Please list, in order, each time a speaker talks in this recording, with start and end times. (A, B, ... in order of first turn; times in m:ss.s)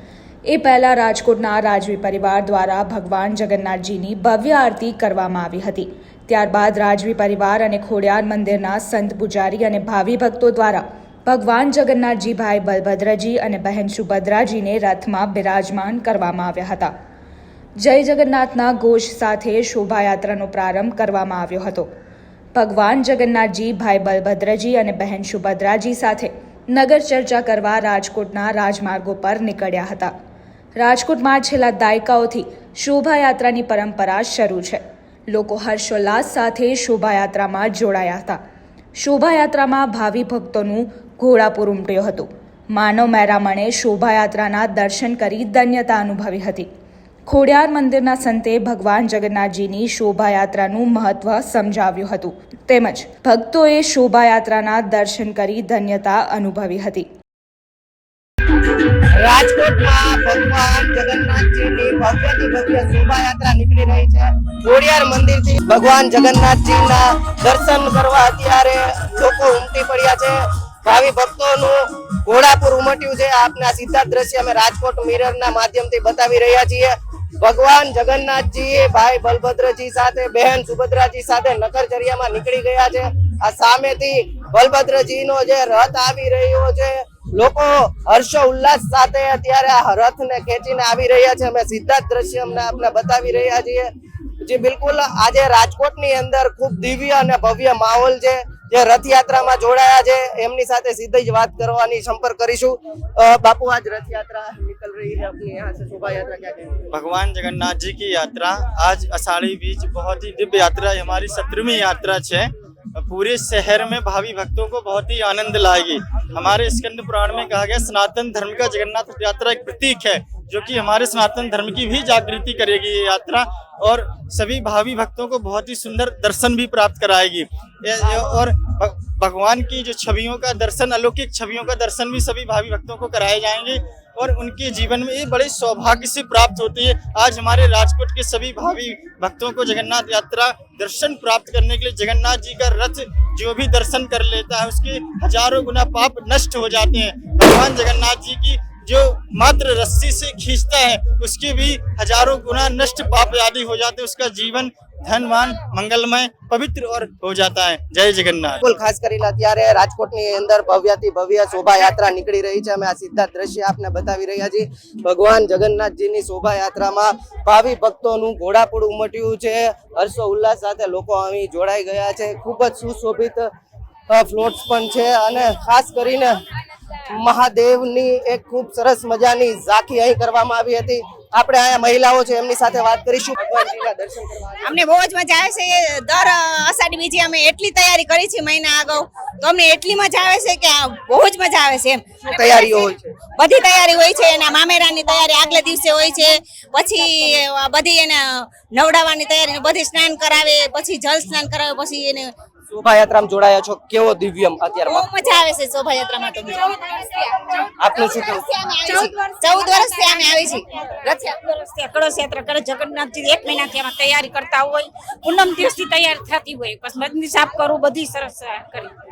0:00.5-0:16.9 A
0:17.8-0:21.9 A
0:22.6-0:30.1 A
0:30.8-0:38.4 A
0:39.0-0:46.7 A
0:47.3-0:57.1 A
0:59.1-1:33.9 B
1:34.4-1:46.9 B
1:46.9-2:38.6 C
2:38.6-2:53.5 B
2:54.1-2:56.4 B
2:57.1-3:04.8 B
3:04.6-3:22.3 D
3:12.3-3:13.2 B
3:22.7-3:25.1 B
3:24.9-3:31.4 D
3:27.8-3:28.5 B
3:31.4-3:38.9 E